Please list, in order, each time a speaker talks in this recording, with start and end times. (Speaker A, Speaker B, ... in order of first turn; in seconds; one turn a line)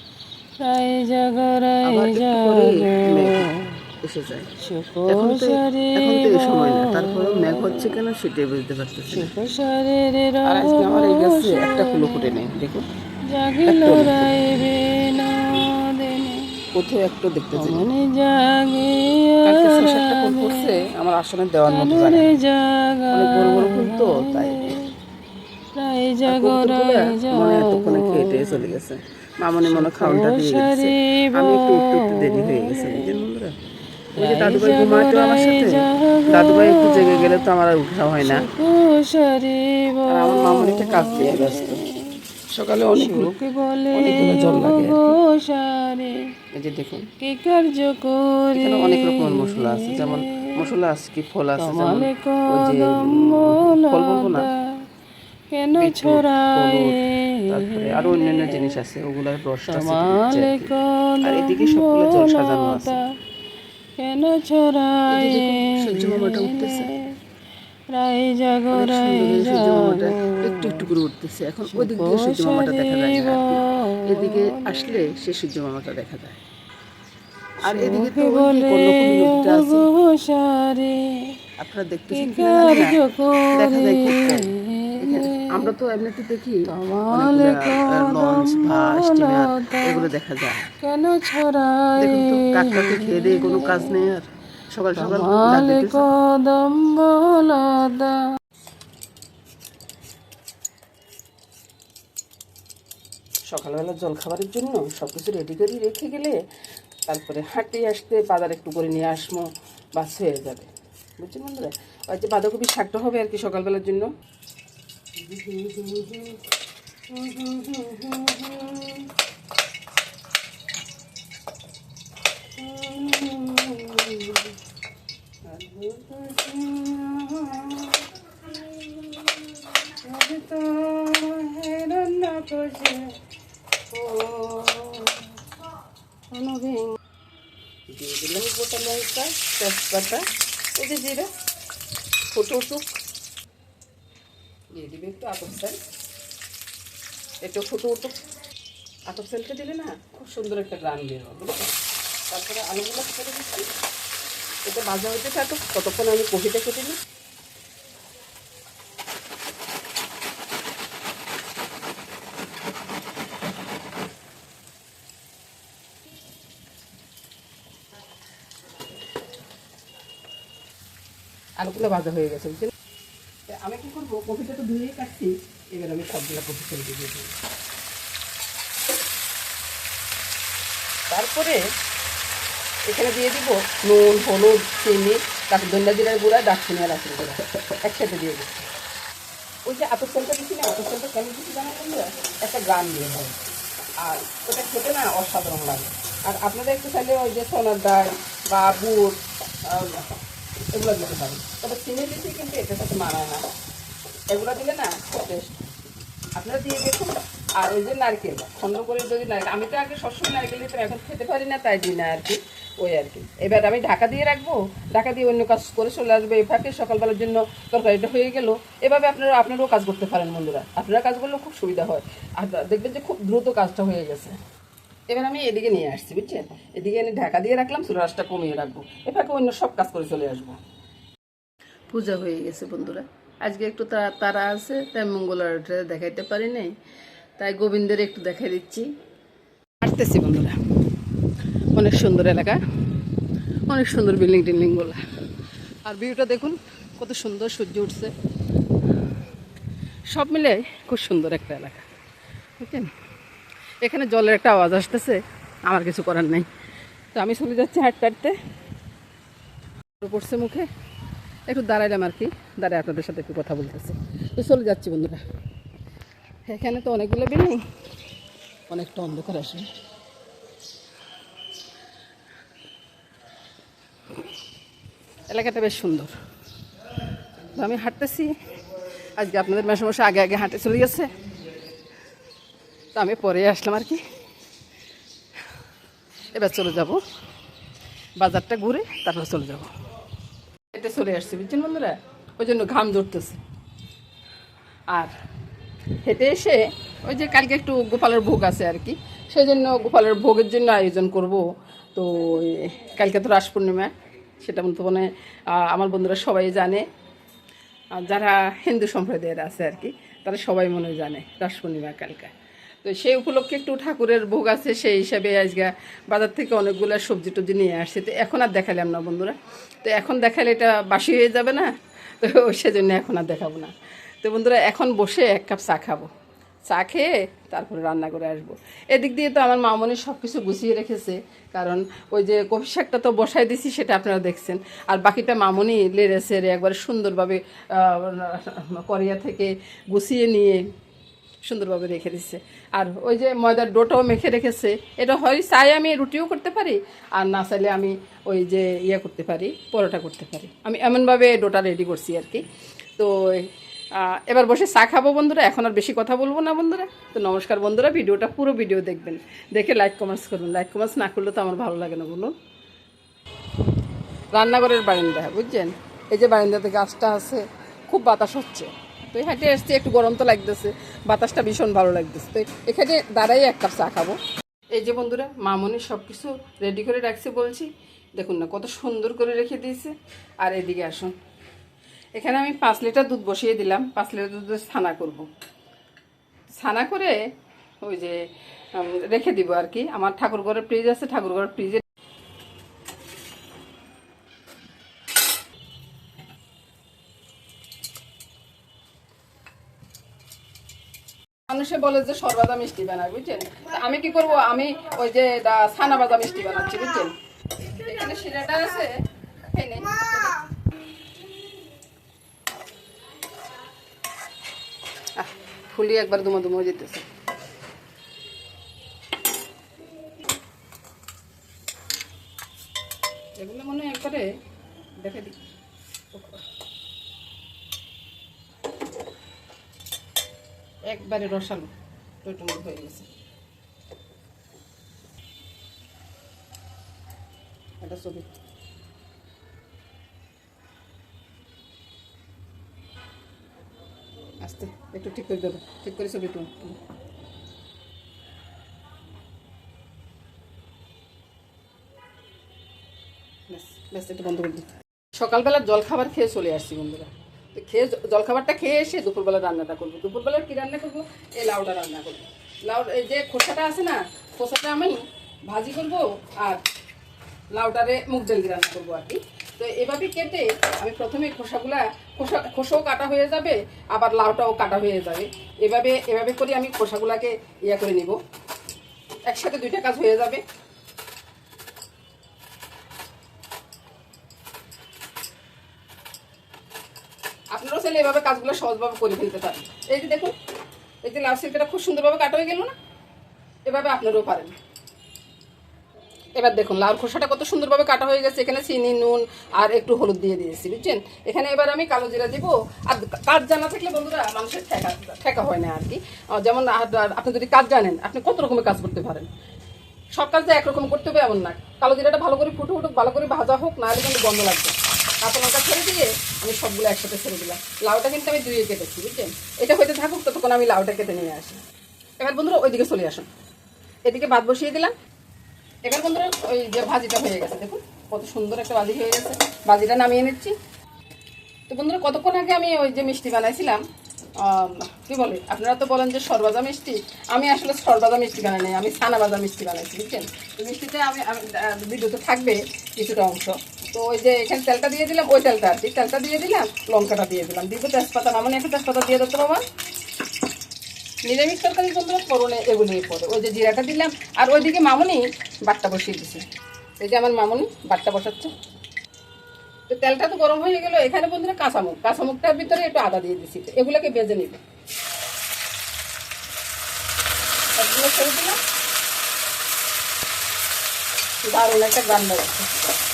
Speaker A: 0.6-3.7
Speaker B: 1.8-3.5
Speaker B: 4.0-4.5
Speaker A: 4.6-8.0
Speaker B: 5.1-9.3
Speaker A: 9.1-12.4
Speaker B: 10.4-12.8
Speaker A: 13.3-16.5
Speaker B: 13.7-14.4
Speaker B: 16.7-17.9
Speaker A: 17.5-20.7
Speaker B: 19.4-22.4
Speaker A: 21.7-24.9
Speaker B: 23.1-24.7
Speaker A: 25.8-28.8
Speaker B: 26.2-33.5
Speaker A: 29.6-33.2
Speaker B: 34.2-38.5
Speaker A: 34.2-37.5
Speaker A: 38.2-42.2
Speaker B: 40.1-41.8
Speaker B: 42.5-43.3
Speaker A: 43.0-46.3
Speaker B: 43.9-45.2
Speaker B: 46.5-47.1
Speaker A: 47.2-50.7
Speaker B: 48.5-54.5
Speaker A: 51.5-54.9
Speaker A: 55.5-58.8
Speaker B: 55.7-63.0
Speaker A: 59.7-63.0
Speaker A: 64.0-67.1
Speaker B: 65.1-66.9
Speaker A: 67.9-70.9
Speaker B: 68.7-76.4
Speaker A: 71.7-75.2
Speaker B: 77.6-79.9
Speaker A: 77.7-81.3
Speaker B: 81.6-83.0
Speaker A: 82.1-85.7
Speaker B: 83.5-90.7
Speaker A: 86.7-90.1
Speaker A: 90.8-94.1
Speaker B: 91.9-96.0
Speaker A: 94.9-98.2
Speaker B: 103.5-106.4
Speaker B: 107.1-114.1
Speaker B: 115.2-116.4
Speaker B: 117.1-119.1
Speaker B: 122.6-124.5
Speaker B: 125.5-133.1
Speaker B: 133.9-135.4
Speaker B: 136.3-136.9
Speaker B: 137.9-140.2
Speaker B: 140.8-141.3
Speaker B: 142.3-142.9
Speaker B: 144.8-145.8
Speaker B: 147.4-148.2
Speaker B: 149.1-151.7
Speaker B: 152.3-153.7
Speaker B: 154.7-157.0
Speaker B: 171.6-172.7
Speaker B: 173.5-177.3
Speaker B: 181.1-181.6
Speaker B: 182.9-188.7
Speaker B: 189.7-193.5
Speaker B: 194.0-200.1
Speaker B: 200.7-203.4
Speaker B: 204.3-205.7
Speaker B: 206.3-224.3
Speaker B: 225.1-230.6
Speaker B: 231.9-236.7
Speaker B: 237.4-238.9
Speaker B: 239.8-240.6
Speaker B: 241.7-242.6
Speaker B: 243.7-245.0
Speaker B: 245.9-248.1
Speaker B: 250.1-251.8
Speaker B: 252.6-252.9
Speaker B: 253.8-256.5
Speaker B: 257.1-258.4
Speaker B: 260.0-260.7
Speaker B: 261.5-265.2
Speaker B: 266.5-267.6
Speaker B: 268.7-269.7
Speaker B: 275.3-276.1
Speaker B: 277.5-278.3
Speaker B: 279.2-281.1
Speaker B: 282.9-284.0
Speaker B: 286.3-287.0
Speaker B: 288.2-289.7
Speaker B: 290.7-293.4
Speaker B: 296.0-301.4
Speaker B: 301.9-306.8
Speaker B: 307.9-312.3
Speaker B: 312.8-326.1
Speaker B: 326.7-340.6
Speaker B: 341.5-352.4
Speaker B: 353.0-362.3
Speaker B: 364.3-374.2
Speaker B: 374.7-381.1
Speaker B: 382.2-385.2
Speaker B: 386.6-387.1
Speaker B: 387.8-388.2
Speaker B: 388.7-391.8
Speaker B: 401.5-410.4
Speaker B: 415.1-417.1
Speaker B: 423.4-424.2
Speaker B: 425.0-425.4
Speaker B: 430.9-431.7
Speaker B: 432.2-433.1
Speaker B: 437.8-438.4
Speaker B: 444.4-446.8
Speaker B: 453.5-466.6
Speaker B: 467.5-478.2
Speaker B: 479.3-480.4
Speaker B: 487.5-490.3
Speaker B: 491.0-492.7
Speaker B: 493.7-494.5
Speaker B: 496.4-509.3
Speaker B: 510.2-521.6
Speaker B: 522.2-523.3
Speaker B: 524.0-524.9
Speaker B: 525.9-530.5
Speaker B: 531.7-533.8
Speaker B: 534.4-549.6
Speaker B: 551.3-556.4
Speaker B: 557.0-558.5
Speaker B: 559.9-564.6
Speaker B: 567.8-568.6
Speaker B: 571.4-572.7